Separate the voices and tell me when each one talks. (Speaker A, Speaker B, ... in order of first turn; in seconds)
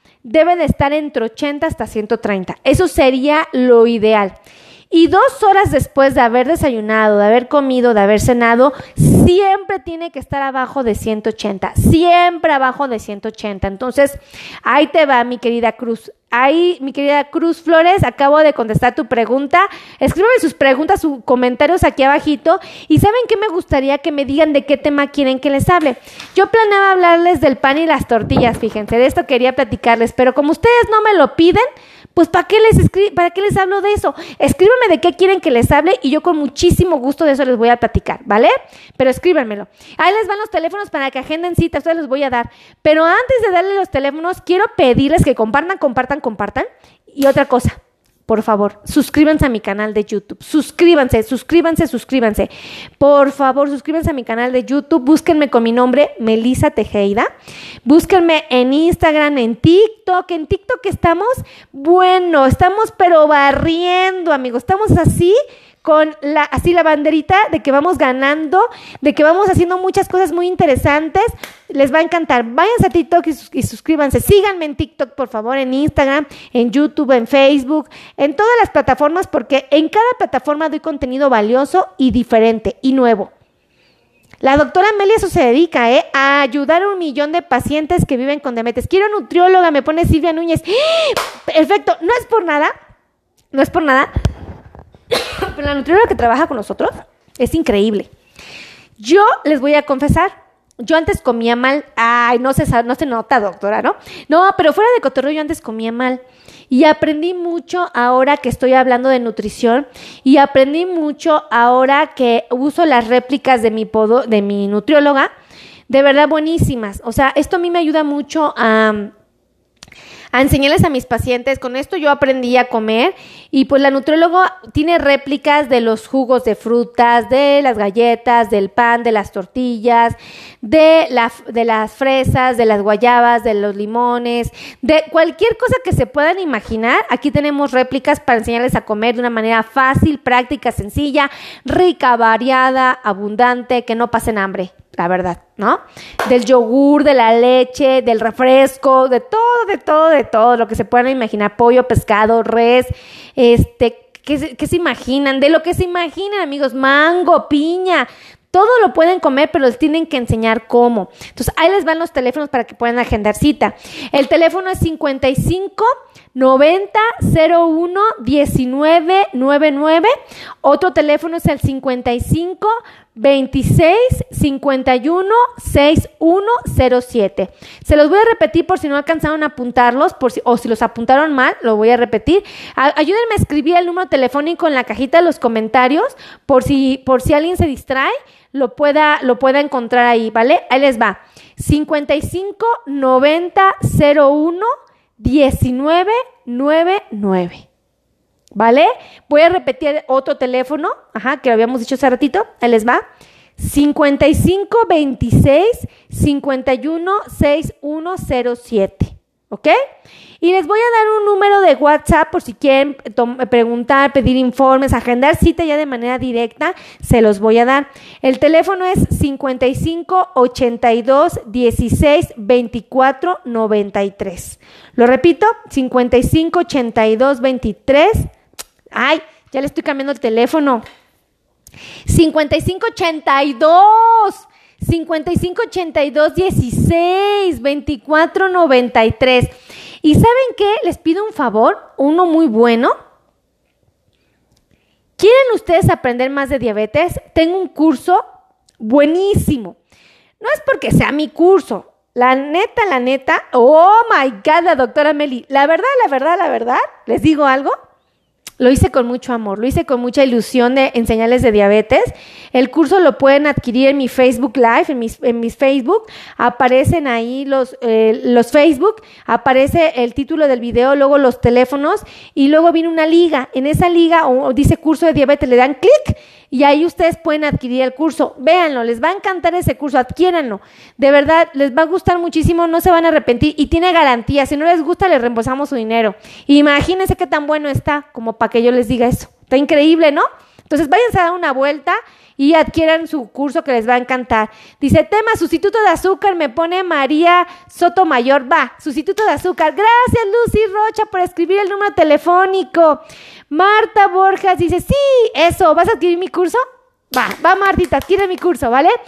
Speaker A: 0.2-4.3, 4.9-57.3, 57.9-83.3, 84.4-92.7, 93.5-94.1, 95.1-98.1, 99.0-115.3, 115.9-119.1, 120.3-170.1, 170.6-197.7, 198.6-203.0, 203.6-209.8, 210.4-228.3, 228.9-230.8, 232.1-242.9, 245.2-248.2, 248.8-249.8, 250.4-257.7, 258.6-306.6, 307.1-308.9